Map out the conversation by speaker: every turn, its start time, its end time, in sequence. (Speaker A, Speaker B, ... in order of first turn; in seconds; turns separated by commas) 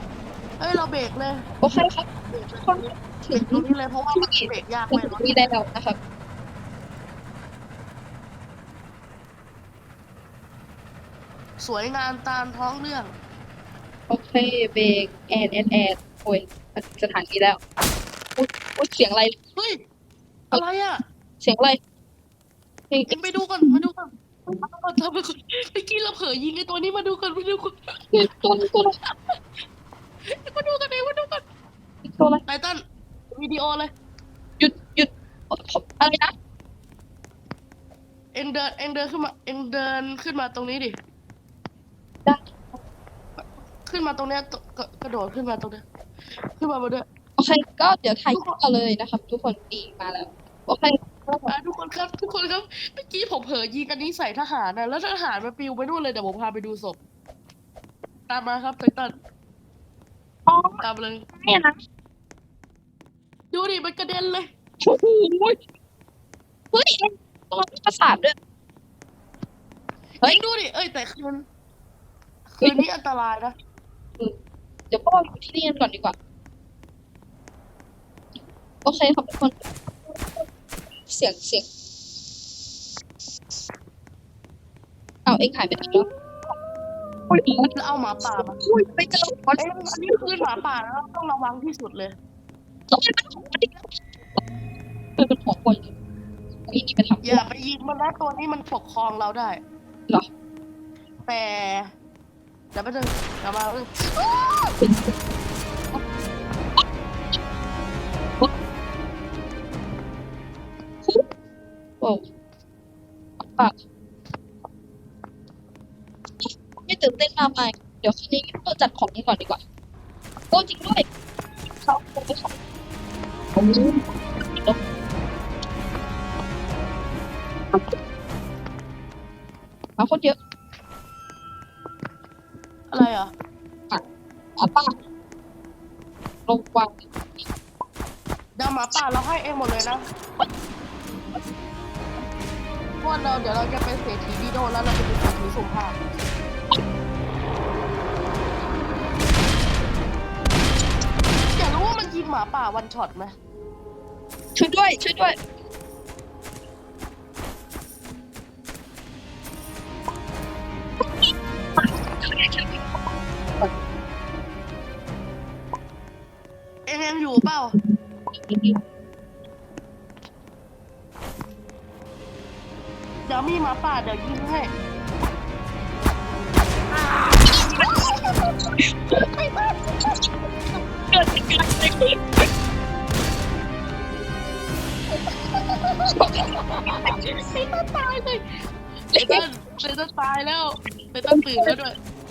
Speaker A: 0.6-1.5, Speaker B: 1.6-6.0, Speaker A: 2.3-5.5, Speaker A: 11.6-13.1, Speaker B: 14.1-17.6, Speaker B: 18.4-19.4, Speaker A: 19.6-19.8, Speaker A: 20.5-21.0, Speaker B: 21.4-21.8, Speaker B: 22.9-23.8, Speaker A: 23.1-28.1, Speaker B: 28.1-28.9, Speaker A: 29.1-29.4, Speaker A: 30.3-31.4, Speaker B: 32.0-32.4, Speaker A: 32.5-32.8, Speaker A: 33.3-33.9, Speaker B: 34.6-36.3, Speaker A: 38.3-41.0, Speaker B: 42.2-42.8, Speaker A: 43.4-45.8, Speaker A: 46.6-47.0, Speaker B: 47.4-51.5, Speaker A: 51.5-57.0, Speaker A: 58.3-59.1, Speaker B: 60.5-61.8, Speaker A: 60.8-61.3, Speaker A: 63.5-64.5, Speaker B: 64.8-65.6, Speaker B: 66.7-68.3, Speaker A: 70.2-71.4, Speaker A: 72.5-73.5, Speaker B: 74.9-76.2, Speaker B: 78.8-80.4, Speaker B: 81.1-81.7, Speaker B: 85.3-86.1, Speaker B: 87.3-87.7, Speaker A: 87.7-88.6, Speaker B: 88.2-90.6, Speaker A: 89.6-92.2, Speaker B: 92.9-94.4, Speaker B: 95.2-95.9, Speaker B: 96.7-97.4, Speaker A: 97.2-99.6, Speaker A: 101.3-101.9, Speaker A: 102.7-104.0, Speaker B: 104.3-105.2, Speaker B: 113.4-113.7, Speaker B: 116.4-119.6, Speaker B: 120.5-121.1, Speaker B: 121.8-122.5, Speaker B: 123.5-124.8, Speaker B: 130.0-130.4, Speaker A: 132.9-133.3, Speaker B: 134.6-134.9, Speaker B: 136.5-137.1, Speaker A: 138.6-140.0, Speaker B: 141.1-141.5, Speaker A: 143.0-146.0, Speaker A: 151.6-153.3, Speaker B: 154.6-155.4, Speaker B: 161.2-163.0, Speaker A: 166.9-167.8, Speaker B: 167.8-168.8, Speaker A: 173.3-174.7, Speaker B: 177.4-180.3, Speaker A: 177.6-178.0, Speaker B: 181.0-182.5, Speaker B: 185.1-187.2, Speaker A: 186.8-188.4, Speaker B: 189.1-189.4, Speaker A: 189.2-191.9, Speaker B: 191.3-191.8